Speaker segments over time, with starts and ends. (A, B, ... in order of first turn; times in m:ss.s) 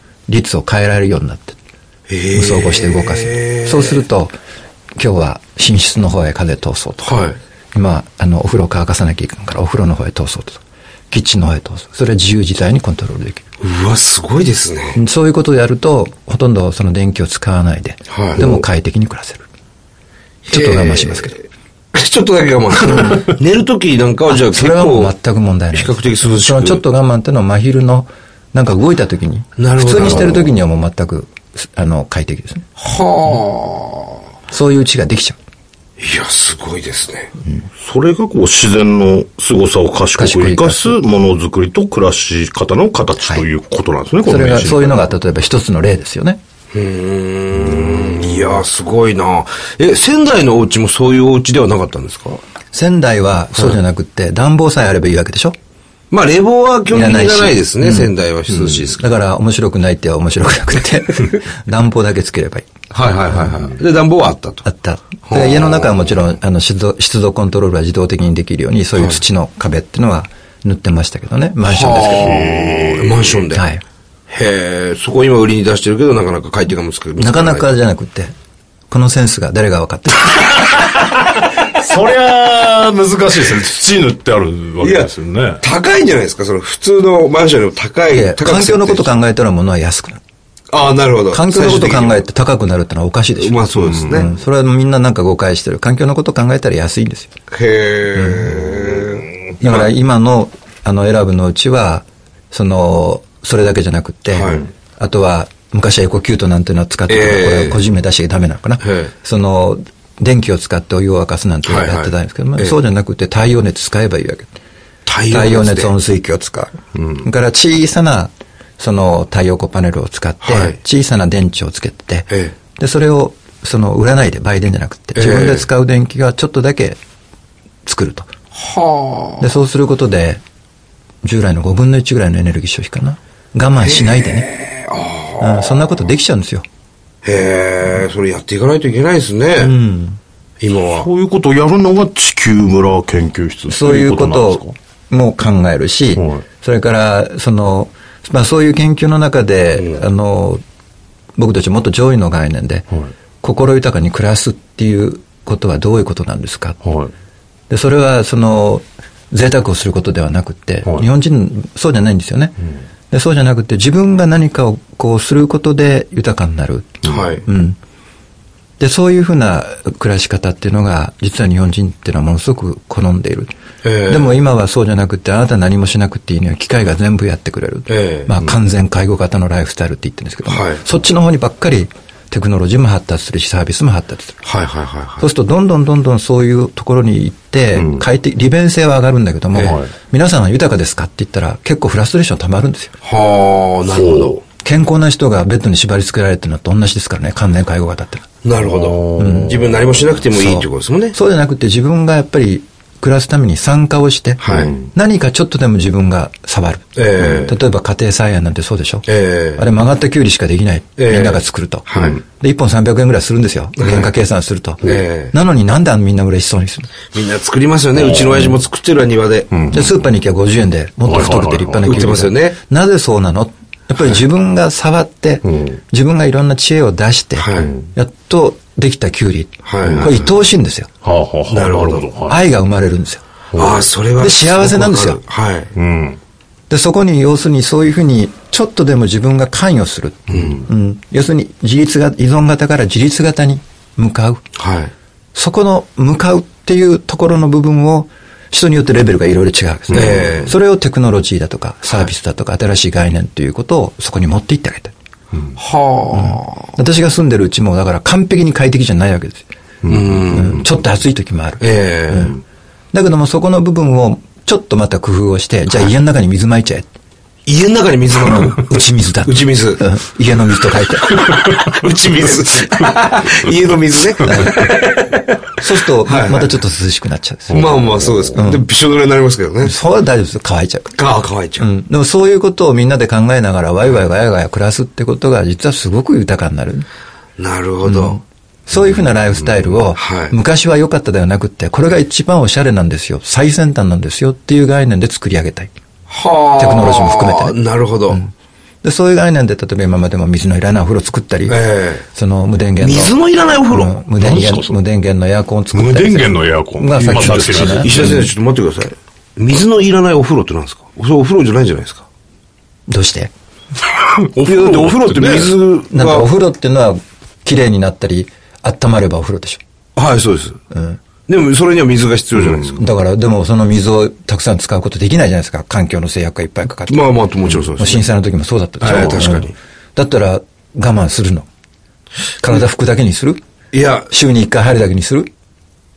0:00.3-0:01.6 A
0:02.1-0:04.0 B
0:02.3-0:04.3 A
0:05.0-0:07.2 A
0:07.0-0:07.4 B
0:07.7-0:13.4 A
0:13.6-0:15.0 B
0:14.9-0:19.4 A
0:18.1-0:18.6 B
0:20.4-0:25.1 B
0:20.5-0:21.3 A
0:22.8-0:23.3 A
0:24.3-0:32.7 A
0:25.7-0:26.8 B
0:29.6-0:30.5 B
0:30.0-0:30.3 C
0:32.8-0:34.2 B
0:34.5-0:35.4 A
0:36.0-0:37.3 B
0:37.8-0:45.1 C
0:40.1-0:41.0 A
0:44.2-0:46.4 A
0:46.7-0:52.4 B
0:47.6-0:48.2 C
0:52.7-0:55.6 A
0:56.1-0:59.0 B
0:56.9-0:58.1 A
0:58.5-0:58.9 C
0:58.8-1:02.7 A
1:02.9-1:04.6 B
1:04.6-1:12.4 A
1:05.2-1:06.1 B
1:11.6-1:13.6 B
1:12.0-1:13.4 C
1:13.5-1:13.8 A
1:14.3-1:17.7 B
1:17.2-1:18.3 A
1:18.9-1:20.7 A
1:20.8-1:25.6 C
1:24.8-1:29.1 B
1:28.1-1:30.2 A
1:30.7-1:32.2 B
1:31.3-1:37.3 A
1:33.4-1:34.3 B
1:33.8-1:34.1 C
1:37.5-1:39.9 B
1:38.2-1:38.8 A
1:39.6-1:54.5 A
1:44.3-1:44.7 B
1:47.1-1:47.8 B
1:48.8-1:49.1 B
1:51.6-1:52.8 B
1:55.0-1:55.9 B
1:55.3-2:07.0 A
1:57.0-1:57.2 C
2:00.4-2:00.8 B
2:02.3-2:02.5 B
2:05.1-2:05.7 B
2:07.8-2:08.3 A
2:08.5-2:09.5 B
2:09.4-2:10.4 A
2:11.2-2:14.5 A
2:13.8-2:15.8 B
2:15.4-2:16.6 A
2:17.2-2:19.8 B
2:19.6-2:20.2 A
2:20.6-2:21.1 B
2:20.8-2:24.7 C
2:23.7-2:30.6 A
2:26.1-2:26.4 C
2:31.4-2:32.9 A
2:33.4-2:36.8 A
2:36.8-2:37.1 C
2:37.7-2:42.6 A
2:43.1-2:47.8 A
2:47.0-2:47.4 B
2:48.8-2:53.5 A
2:53.8-2:54.4 B
2:54.1-3:04.4 A
2:57.9-2:58.3 B
3:00.4-3:00.8 B
3:04.4-3:05.2 B
3:05.2-3:12.9 A
3:07.8-3:08.0 C
3:09.5-3:09.8 B
3:13.0-3:14.4 B
3:13.9-3:14.4 C
3:14.6-3:18.3 A
3:18.4-3:21.2 B
3:18.6-3:20.0 C
3:19.2-3:19.6 A
3:20.3-3:36.9 A
3:24.4-3:24.8 B
3:26.9-3:27.6 B
3:29.0-3:29.6 B
3:31.0-3:32.2 B
3:33.8-3:34.1 B
3:34.8-3:35.3 B
3:37.1-3:39.5 B
3:38.0-3:38.5 C
3:39.5-3:40.0 C
3:39.7-3:50.9 A
3:41.0-3:42.2 C
3:41.8-3:42.6 B
3:45.4-3:45.8 C
3:47.4-3:47.7 B
3:49.6-3:50.4 B
3:51.0-3:52.4 C
3:51.5-3:52.1 B
3:52.2-3:53.2 A
3:53.5-3:53.9 C
3:53.5-3:55.7 B
3:54.2-3:55.2 A
3:55.7-3:56.2 C
3:56.7-4:04.4 A
4:00.3-4:00.6 B
4:04.6-4:04.9 B
4:05.3-4:14.9 A
4:09.9-4:10.5 B
4:15.6-4:16.7 B
4:16.1-4:19.5 A
4:19.8-4:20.4 C
4:19.8-4:20.6 B
4:20.3-4:22.4 A
4:21.6-4:22.4 B
4:22.9-4:26.9 A
4:27.4-4:29.8 B
4:28.2-4:31.2 A
4:31.0-4:36.6 B
4:34.2-4:34.6 A
4:35.6-4:37.8 A
4:37.5-4:38.4 C
4:37.5-4:39.8 B
4:38.3-4:38.6 A
4:39.6-4:41.0 A
4:40.9-4:41.7 B
4:41.6-4:46.8 A
4:47.4-4:48.2 B
4:47.8-4:55.7 A
4:48.8-4:49.0 C
4:50.0-4:50.4 B
4:56.1-4:58.2 B
4:56.6-4:57.6 A
4:58.8-5:03.2 A
5:01.5-5:02.0 B
5:02.8-5:03.9 B
5:03.7-5:08.3 A
5:04.2-5:04.8 C
5:05.7-5:08.3 C
5:07.0-5:12.1 B
5:12.9-5:13.3 A
5:13.9-5:15.6 C
5:14.4-5:16.3 B
5:15.9-5:19.6 A
5:20.0-5:20.6 B
5:20.7-5:21.0 A
5:21.3-5:22.8 B
5:22.4-5:22.8 C
5:22.8-5:27.1 A
5:26.9-5:28.1 B
5:27.8-5:31.5 A
5:28.8-5:29.6 B
5:32.4-5:33.4 A
5:33.7-5:34.1 B
5:34.1-5:35.3 A